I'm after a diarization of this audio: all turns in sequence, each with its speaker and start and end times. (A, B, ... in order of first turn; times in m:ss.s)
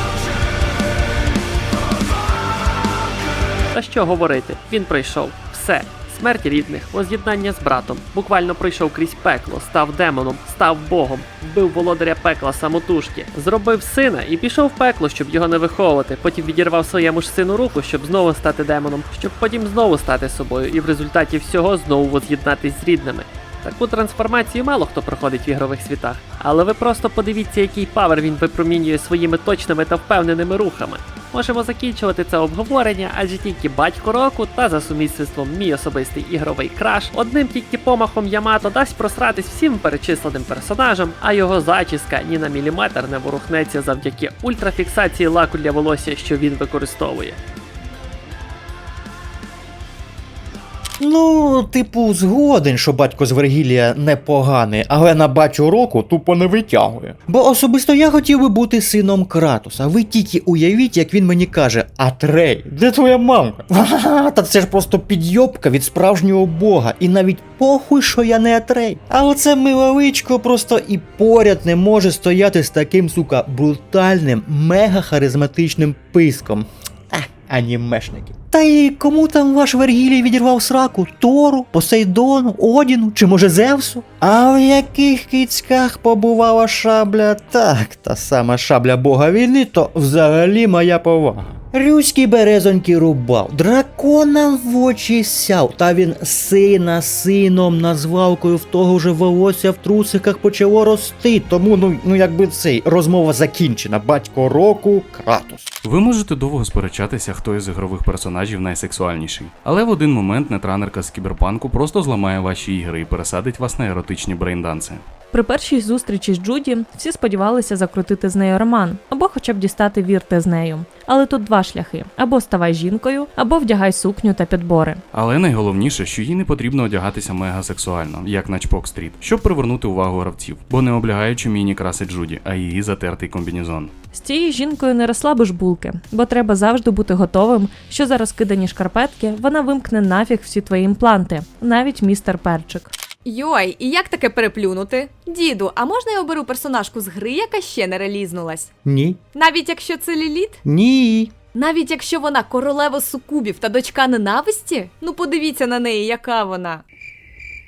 0:03.7-0:47.4 A
0:51.0-1:45.7 B
1:45.8-1:55.0 C
1:55.3-2:05.0 D
2:05.1-2:13.9 C
2:14.1-2:22.9 D
2:23.2-2:28.7 E
2:28.8-2:29.2 B
2:29.3-2:30.6 E
2:30.6-2:31.3 B
2:31.5-2:36.8 E